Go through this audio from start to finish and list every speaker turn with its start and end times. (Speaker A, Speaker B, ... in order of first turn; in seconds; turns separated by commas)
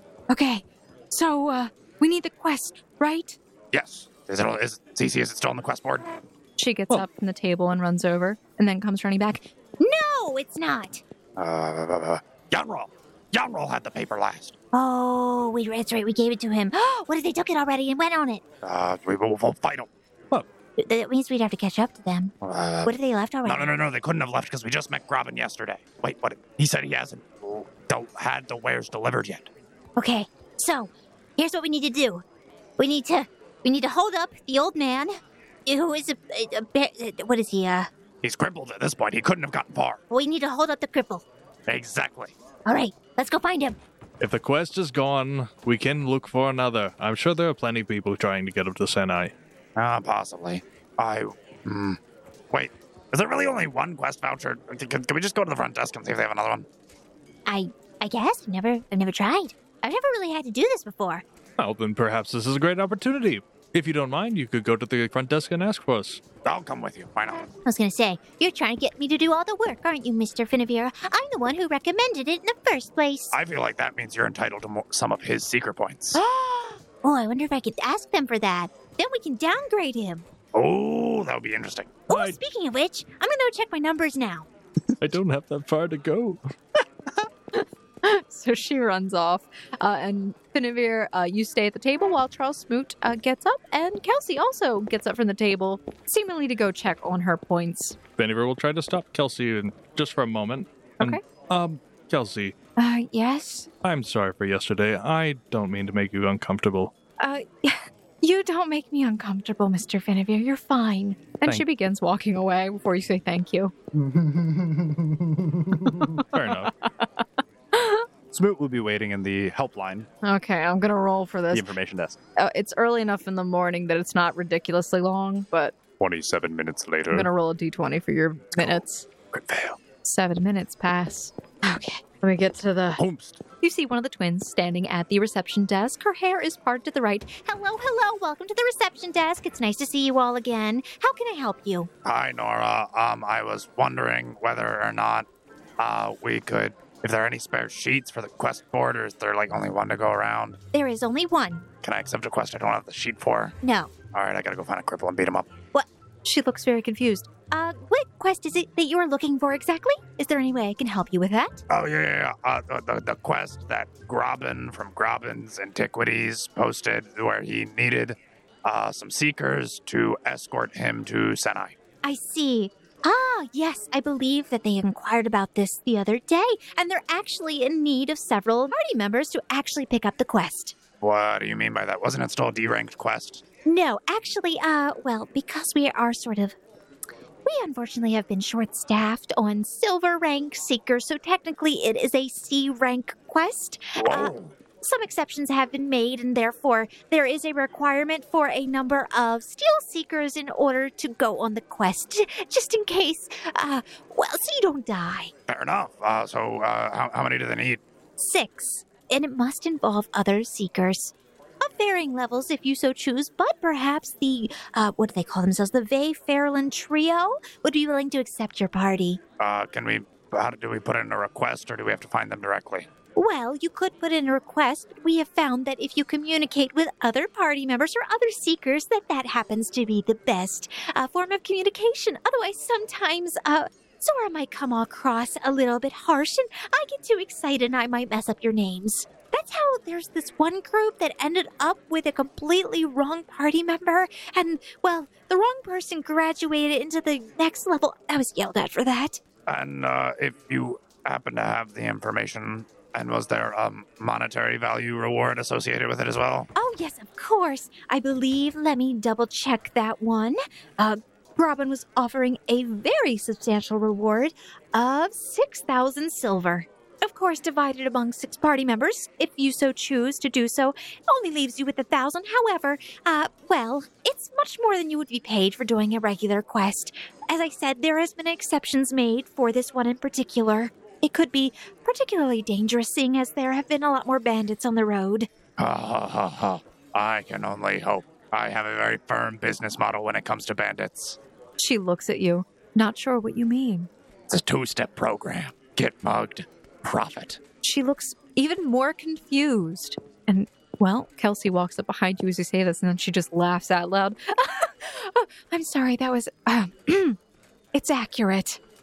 Speaker A: 0.3-3.4, Speaker B: 3.7-6.1, Speaker A: 6.6-9.4, Speaker C: 9.8-11.0, Speaker B: 11.4-14.5, Speaker C: 14.7-18.4, Speaker B: 18.6-19.9, Speaker C: 20.8-22.3, Speaker B: 22.4-29.5, Speaker C: 22.9-23.7, Speaker C: 29.9-32.2, Speaker C: 32.8-35.1, Speaker C: 35.6-37.9, Speaker B: 38.2-40.0, Speaker C: 40.1-41.2, Speaker B: 41.7-42.4, Speaker C: 42.6-43.8, Speaker D: 44.2-49.3, Speaker B: 49.8-52.0, Speaker B: 52.5-56.7, Speaker C: 57.5-61.2, Speaker D: 61.6-66.2, Speaker B: 66.4-67.5, Speaker C: 67.6-73.3, Speaker B: 73.3-76.2, Speaker C: 76.1-80.2, Speaker B: 80.5-82.0, Speaker C: 82.1-84.5, Speaker D: 82.1-82.4, Speaker D: 85.0-86.4, Speaker A: 87.5-98.0, Speaker D: 98.2-102.5, Speaker A: 102.8-103.7, Speaker D: 103.8-106.9, Speaker A: 107.2-113.7, Speaker E: 113.9-116.2, Speaker A: 116.0-118.0, Speaker D: 116.3-116.7, Speaker E: 118.3-120.1, Speaker A: 120.2-121.7, Speaker E: 121.5-122.2, Speaker A: 122.4-125.7, Speaker E: 126.0-127.3, Speaker A: 127.1-129.1, Speaker E: 129.4-129.7, Speaker A: 130.0-133.0, Speaker E: 133.0-133.4, Speaker A: 133.6-137.4, Speaker C: 137.4-141.9, Speaker B: 142.0-145.3, Speaker B: 145.8-150.6, Speaker C: 150.7-151.7, Speaker B: 151.8-153.6, Speaker C: 153.6-153.9, Speaker B: 154.1-155.6, Speaker A: 156.2-157.3, Speaker C: 157.4-161.6, Speaker B: 161.7-171.8, Speaker C: 172.0-180.8, Speaker B: 181.0-183.4, Speaker C: 183.7-186.6, Speaker C: 187.4-205.3, Speaker B: 194.0-194.5, Speaker B: 205.5-207.8, Speaker C: 208.2-219.2, Speaker B: 219.4-222.9, Speaker C: 223.2-249.2, Speaker B: 249.5-256.5, Speaker C: 256.5-285.3, Speaker B: 285.6-291.2, Speaker A: 291.6-293.9, Speaker B: 294.3-297.4, Speaker A: 297.6-307.2, Speaker A: 307.7-308.6